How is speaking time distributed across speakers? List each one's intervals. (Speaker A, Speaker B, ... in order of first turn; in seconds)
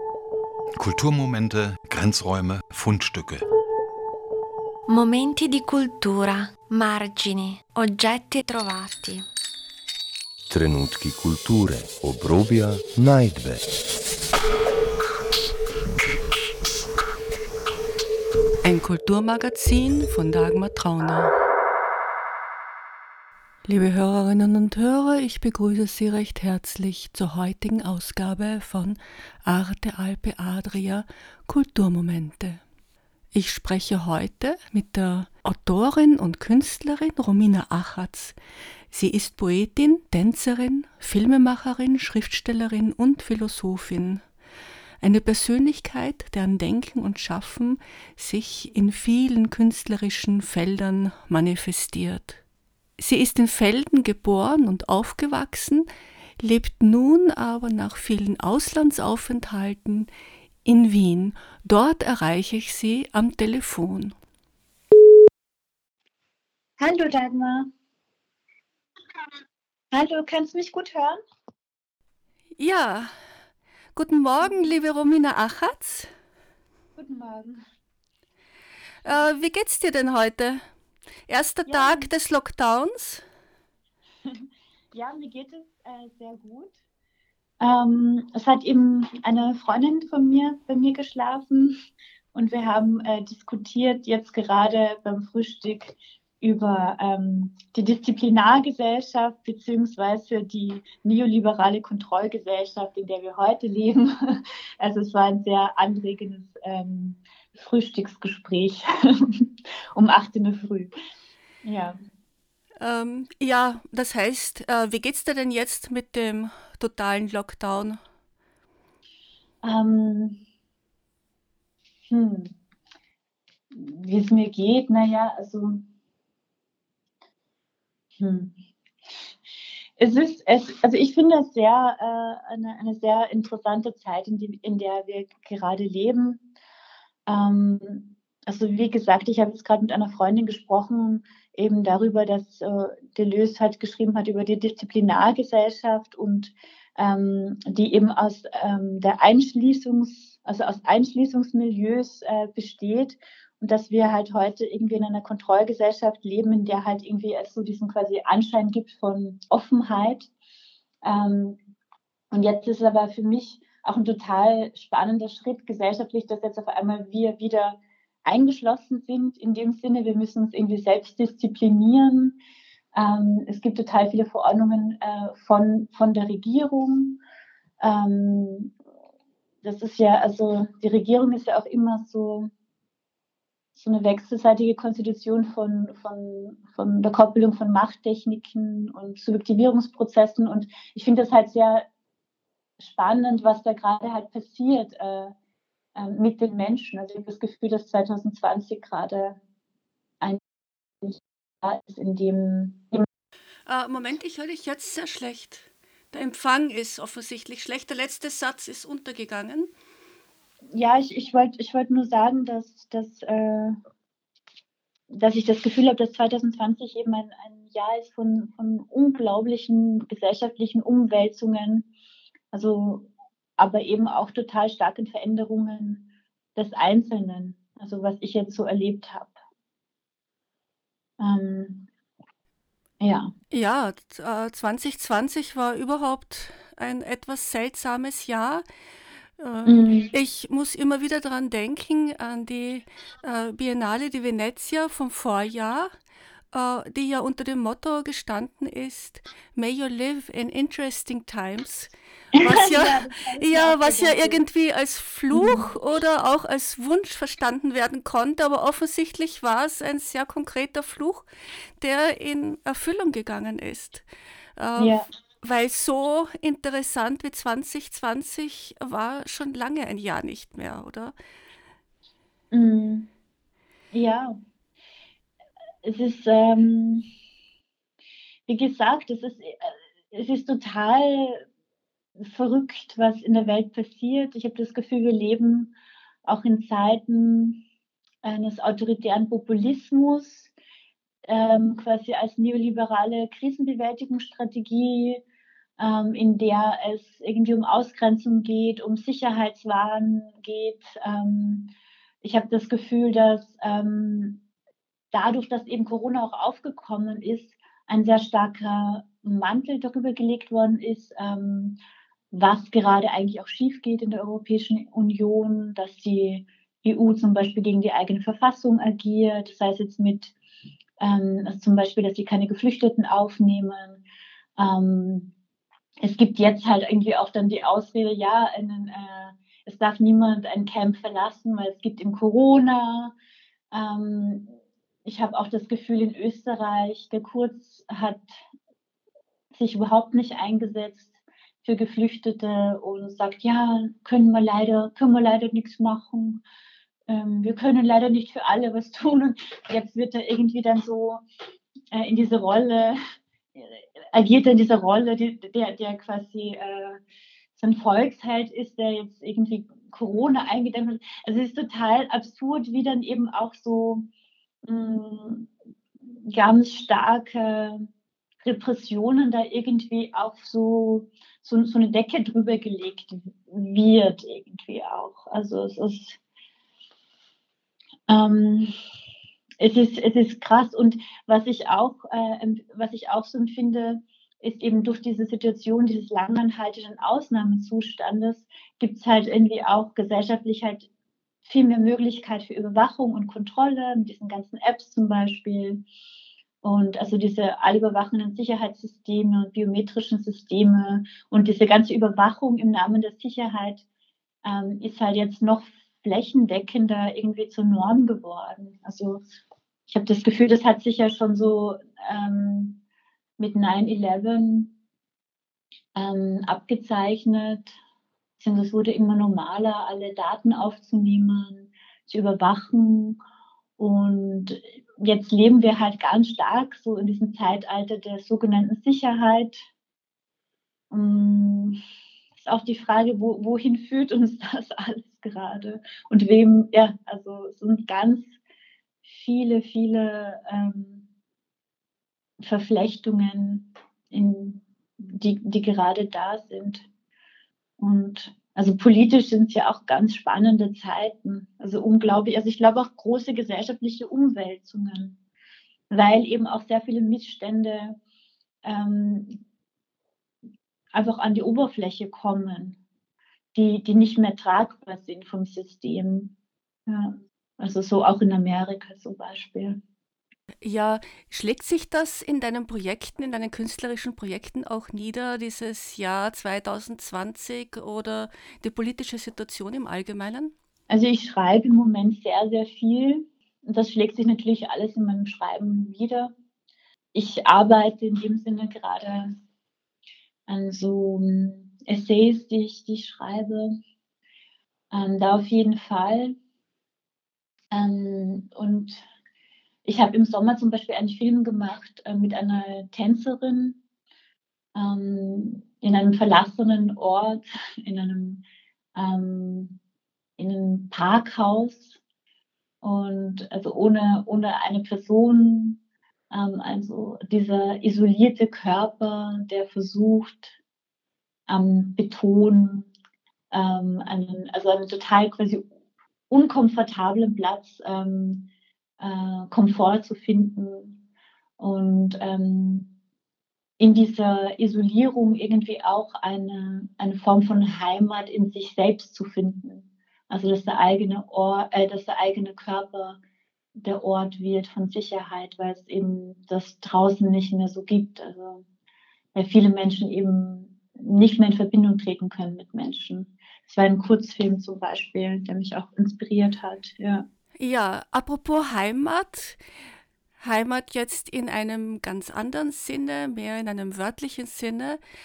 Speaker A: 0.8-3.4
Speaker B: 4.9-9.2
Speaker C: 10.5-13.7
Speaker D: 18.6-21.3, 23.6-32.6, 33.3-38.4, 38.9-44.2, 45.0-52.4, 53.0-55.9, 56.4-60.1, 60.6-64.1, 72.6-73.1, 73.9-76.1, 79.0-80.6, 81.3-83.2, 112.8-118.0, 203.7-209.7, 233.5-238.6, 239.4-245.9, 246.5-261.2, 261.8-264.0, 264.6-271.1, 470.6-480.5, 557.6-559.6, 560.4-565.0
Speaker E: 66.8-67.7, 69.9-71.2, 77.0-77.6, 81.7-82.1, 84.2-86.8, 87.6-91.7, 92.3-110.9, 111.6-112.0, 119.6-120.4, 122.1-122.5, 123.7-125.8, 128.2-128.5, 130.0-136.4, 137.2-160.3, 161.0-161.6, 162.3-172.4, 172.9-177.2, 177.8-178.7, 179.6-182.5, 183.7-191.9, 192.8-195.3, 195.9-199.4, 201.0-203.0, 210.7-213.8, 215.1-221.9, 222.5-229.3, 231.2-231.9, 233.0-233.3, 239.6-240.1, 252.3-254.4, 255.3-255.7, 264.8-265.1, 272.5-273.1, 273.9-274.4, 275.8-277.1, 278.5-281.4, 282.2-285.7, 286.2-287.6, 288.2-290.5, 291.3-295.2, 295.8-301.7, 302.2-304.4, 305.1-311.8, 312.3-320.3, 321.0-324.0, 324.6-325.3, 326.0-333.1, 333.7-334.5, 335.0-338.4, 339.5-346.4, 347.1-351.2, 351.9-353.0, 353.5-357.0, 357.6-364.1, 364.6-365.5, 366.1-367.9, 368.4-376.2, 378.1-378.7, 379.6-390.9, 391.4-395.8, 396.6-403.8, 404.4-409.2, 409.9-412.8, 413.4-414.7, 415.9-417.8, 418.4-423.2, 423.8-429.6, 430.9-431.8, 432.4-438.4, 439.0-441.1, 442.4-446.9, 447.8-455.2, 455.9-458.0, 458.6-459.4, 460.9-462.8, 463.5-466.3, 466.9-469.8, 480.9-486.3, 487.1-489.3, 490.5-493.8, 494.9-496.4, 497.7-499.0, 499.8-503.8, 504.7-508.4, 508.9-509.8, 510.4-512.0, 512.8-515.8, 516.3-520.6, 521.5-522.9, 523.5-525.7, 526.3-531.0, 531.6-532.9, 533.8-543.2, 543.8-548.6, 549.3-557.2